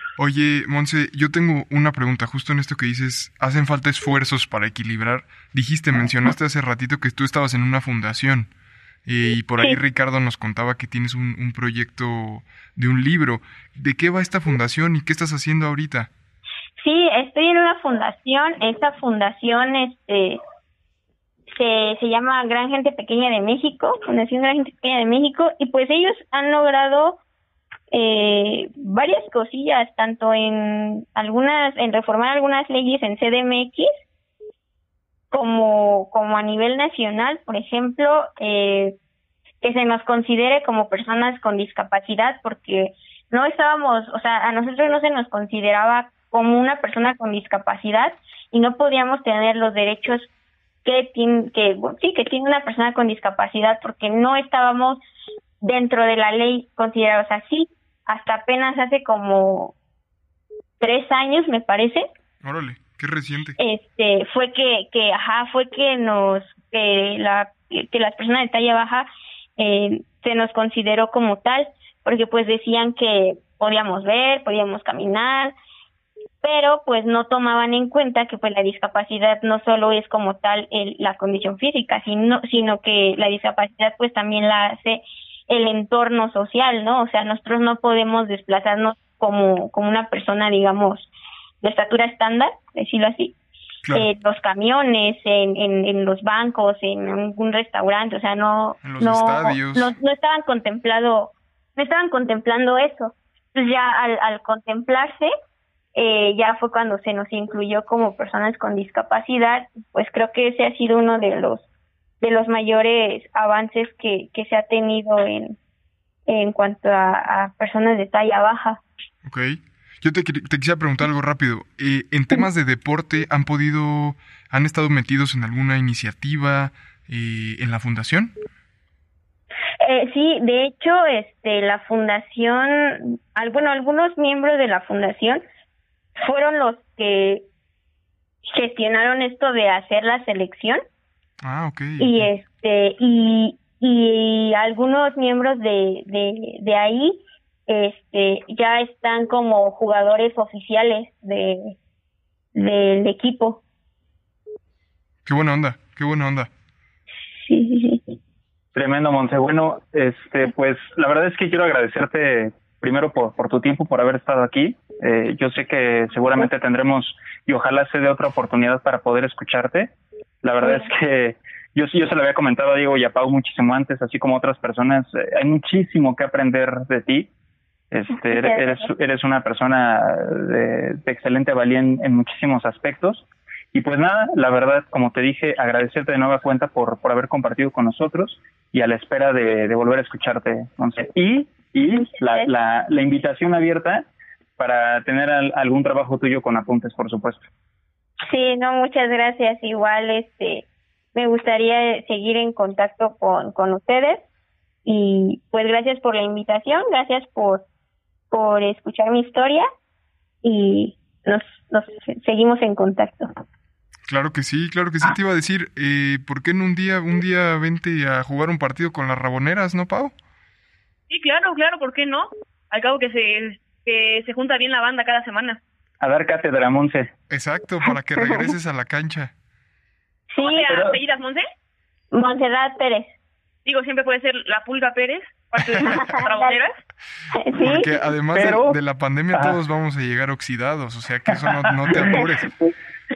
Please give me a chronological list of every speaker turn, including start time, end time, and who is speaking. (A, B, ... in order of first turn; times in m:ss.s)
0:00.2-0:08.5 A
0:09.0-0:16.1 A
0:16.8-0:20.4 B
0:21.6-0:27.2 B
0:27.9-0:33.9 B
0:35.3-0:39.0 B
0:39.6-0:50.3 B
0:50.8-0:55.0 B
0:55.6-0:59.7 B
1:00.8-1:02.1 B
1:02.4-1:03.6 A
1:03.6-1:15.5 B
1:16.4-1:31.1 B
1:31.6-1:33.3 B
1:33.9-1:45.3 B
1:38.8-1:39.9 A
1:45.9-1:51.6 B
1:52.2-1:55.6 B
1:56.3-1:58.8 B
1:59.2-2:08.3 A
2:09.8-2:15.4 B
2:16.2-2:17.4 B
2:18.5-2:20.8 B
2:21.4-2:22.3 A
2:22.0-2:31.8 B
2:32.5-2:33.6 B
2:35.2-2:36.5 A
2:37.4-2:38.1 B
2:38.7-2:57.3 C
2:57.9-3:14.0 C
2:58.3-2:58.8 B
3:12.0-3:12.5 B
3:14.6-3:17.4 C
3:18.3-3:24.2 B
3:24.8-3:27.6 B
3:28.3-3:29.7 B
3:30.4-3:33.3 B
3:34.1-3:40.1 A
3:41.1-3:45.6 D
3:46.0-3:47.1 C
3:47.3-3:49.3 A
3:50.3-3:50.8 B
3:50.4-3:51.4 D
3:50.7-3:51.0 C
3:52.1-3:53.1 B
3:53.6-3:56.7 D
3:55.7-3:56.0 A
3:55.8-3:56.6 B
3:57.3-3:57.9 B
3:57.6-4:02.5 A
3:58.3-3:58.8 C
4:01.3-4:02.2 C